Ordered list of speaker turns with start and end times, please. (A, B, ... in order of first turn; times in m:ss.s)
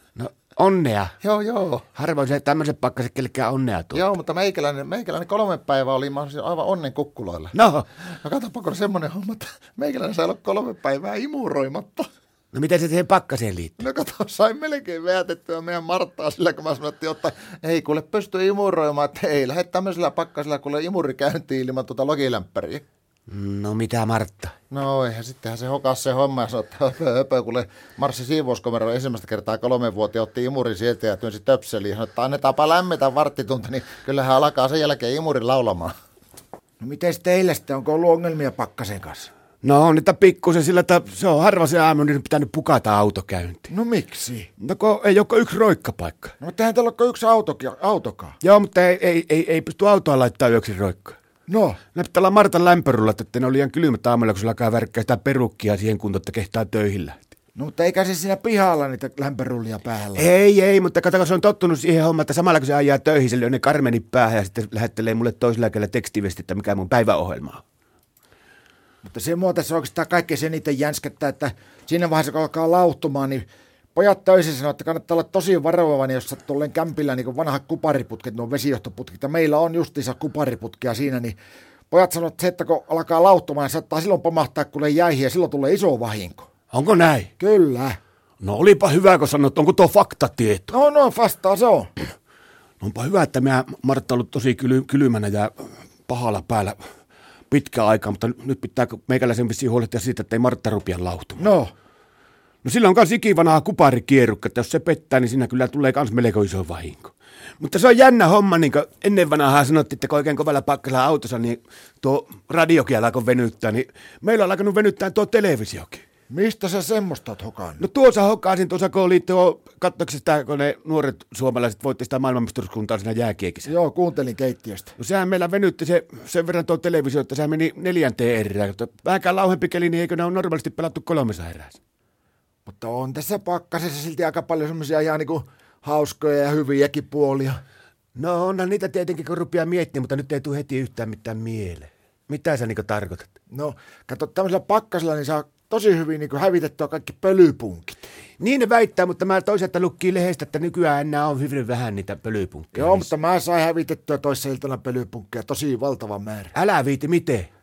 0:00.2-0:01.2 A
0:01.2-0:01.9 B
0:02.0-0:04.1 A
0:03.9-0:12.1 B
0:07.5-0:07.8 A
0:12.5-0:13.8 A
0:13.8-0:22.8 B
0:23.3-0:24.6 A
0:24.7-0:35.9 B
0:36.8-0:39.3 C
0:39.6-0:43.7 A
0:43.7-0:44.5 C
0:44.6-0:46.3 A
0:46.4-0:48.4 C
0:48.4-0:51.2 A
0:51.5-0:51.8 C
0:51.9-0:57.3 A
0:57.6-1:00.3 C
1:00.2-1:07.6 A
1:09.0-1:21.4 C
1:21.9-1:26.5 C
1:26.7-1:27.3 A
1:27.4-1:28.0 C
1:28.4-1:30.7 A
1:30.7-1:31.9 C
1:32.8-1:35.5 A
1:36.1-1:36.8 A
1:37.5-1:41.5 A
1:41.4-1:41.7 C
1:42.6-1:56.0 A
1:56.3-1:57.8 C
1:57.8-2:03.7 A
2:03.6-2:05.0 C
2:05.0-2:11.8 A
2:12.7-2:17.6 C
2:18.2-2:23.3 A
2:23.5-2:28.0 C
2:28.4-2:33.1 A
2:32.8-2:36.5 C
2:36.5-2:37.5 A